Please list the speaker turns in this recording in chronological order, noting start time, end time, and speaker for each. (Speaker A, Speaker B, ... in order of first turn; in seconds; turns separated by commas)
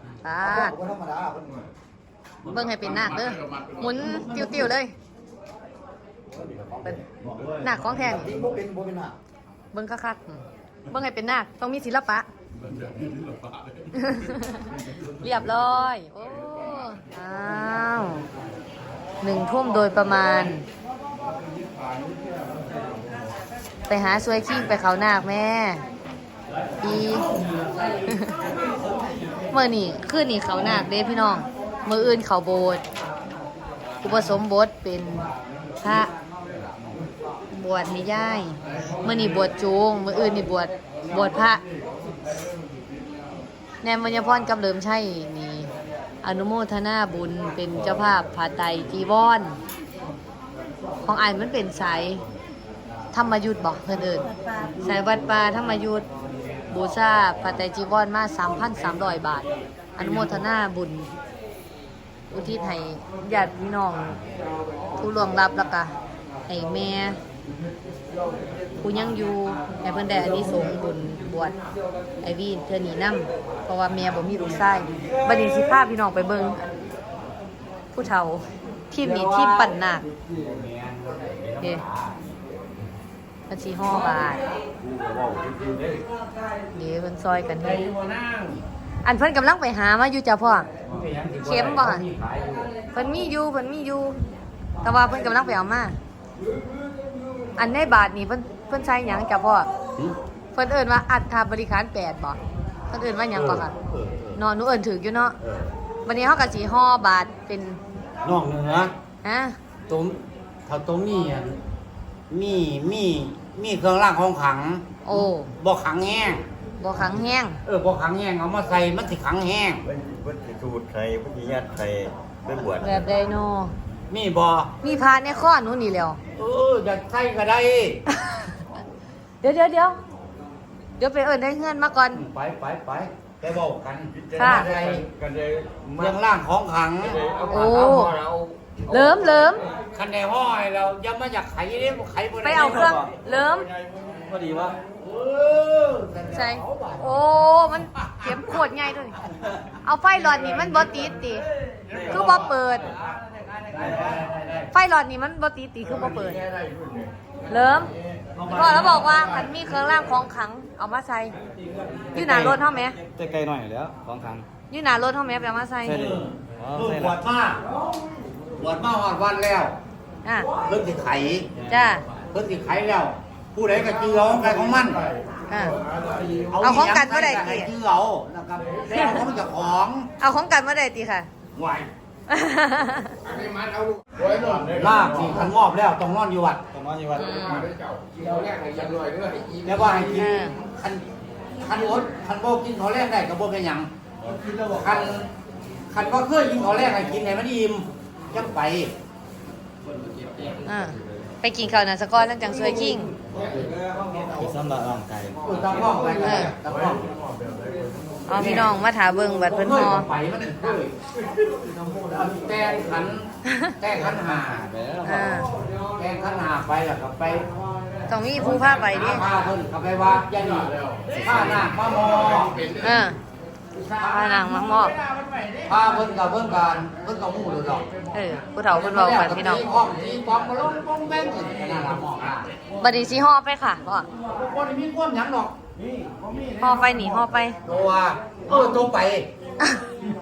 Speaker A: 0.2-0.7, Speaker B: 0.5-1.6, Speaker A: 2.5-4.9, Speaker B: 6.4-6.8, Speaker C: 7.2-7.5, Speaker A: 7.6-8.4, Speaker B: 8.0-9.2, Speaker A: 9.7-12.3, Speaker A: 13.9-18.2, Speaker A: 19.2-20.6, Speaker A: 23.9-25.8, Speaker A: 26.8-27.3, Speaker A: 28.0-28.3, Speaker A: 29.5-32.8, Speaker A: 34.0-35.3, Speaker A: 35.8-36.1, Speaker A: 37.5-41.6, Speaker A: 43.8-45.7, Speaker A: 46.2-49.6, Speaker A: 51.0-52.2, Speaker A: 53.1-54.2, Speaker A: 54.8-56.1, Speaker A: 56.7-61.1, Speaker A: 62.3-64.2, Speaker A: 65.0-65.9, Speaker A: 66.5-67.2, Speaker A: 68.8-71.5, Speaker A: 72.2-76.6, Speaker A: 77.9-80.1, Speaker D: 79.0-79.7, Speaker D: 80.3-82.2, Speaker A: 83.5-84.4, Speaker D: 84.8-86.0, Speaker A: 86.7-87.8, Speaker D: 87.6-88.6, Speaker A: 89.0-90.7, Speaker D: 90.9-92.7, Speaker A: 91.4-92.0, Speaker A: 92.9-94.2, Speaker A: 94.8-96.0, Speaker A: 97.6-99.7, Speaker A: 100.5-102.4, Speaker A: 102.9-103.7, Speaker D: 103.3-104.4, Speaker A: 104.3-105.3, Speaker D: 105.4-105.7, Speaker A: 106.0-107.8, Speaker D: 108.2-108.9, Speaker A: 109.2-109.5, Speaker D: 109.9-111.6, Speaker D: 112.3-115.0, Speaker A: 115.0-115.5, Speaker D: 115.5-116.4, Speaker A: 116.8-117.6, Speaker D: 117.6-119.8, Speaker C: 119.8-123.0, Speaker A: 122.8-123.7, Speaker D: 124.1-124.7, Speaker A: 124.8-126.2, Speaker D: 126.3-128.0, Speaker A: 128.1-128.6, Speaker A: 129.4-130.0, Speaker A: 131.0-132.2, Speaker D: 132.1-135.1, Speaker C: 134.1-136.2, Speaker A: 134.3-134.7, Speaker D: 136.0-138.3, Speaker C: 137.1-137.7, Speaker A: 137.5-138.1, Speaker A: 138.9-139.6, Speaker D: 139.9-143.0, Speaker A: 142.4-143.7, Speaker E: 142.7-143.1, Speaker E: 144.3-144.8, Speaker D: 145.0-147.2, Speaker A: 146.2-149.2, Speaker A: 149.8-151.4, Speaker E: 151.9-152.3, Speaker A: 152.1-152.9, Speaker D: 153.7-154.7, Speaker A: 154.7-156.4, Speaker C: 156.0-157.1, Speaker A: 157.5-157.9, Speaker D: 158.4-159.3, Speaker A: 158.4-161.3, Speaker A: 162.1-163.0, Speaker E: 162.1-164.4, Speaker A: 164.7-166.1, Speaker E: 165.8-167.2, Speaker D: 166.0-167.6, Speaker D: 168.6-169.7, Speaker D: 170.6-171.5, Speaker A: 171.7-172.0, Speaker D: 172.3-175.1, Speaker A: 175.5-175.8, Speaker D: 176.4-180.1, Speaker A: 176.6-177.7, Speaker A: 180.2-181.3, Speaker D: 181.5-181.9, Speaker A: 182.3-183.2, Speaker C: 184.3-184.7, Speaker D: 184.5-186.6, Speaker E: 186.7-187.7, Speaker A: 187.1-187.7, Speaker D: 188.2-191.0, Speaker A: 190.1-190.6, Speaker D: 191.6-193.9, Speaker D: 194.6-195.3, Speaker D: 195.9-198.9, Speaker A: 200.7-203.1, Speaker E: 204.3-205.4, Speaker D: 205.4-207.1, Speaker A: 206.2-206.5, Speaker A: 208.3-210.1, Speaker D: 208.3-208.7, Speaker D: 209.4-210.9, Speaker D: 212.1-214.7, Speaker A: 213.5-213.7, Speaker E: 214.7-215.2, Speaker A: 215.0-215.5, Speaker D: 215.9-217.5, Speaker A: 218.1-219.3, Speaker D: 218.5-222.8, Speaker A: 222.8-223.2, Speaker D: 223.7-227.8, Speaker A: 224.0-225.0, Speaker A: 228.1-229.6, Speaker D: 228.7-232.5, Speaker A: 232.8-234.1, Speaker D: 234.2-235.6, Speaker D: 236.1-236.4, Speaker A: 236.6-237.6, Speaker D: 237.6-239.3, Speaker A: 239.6-239.8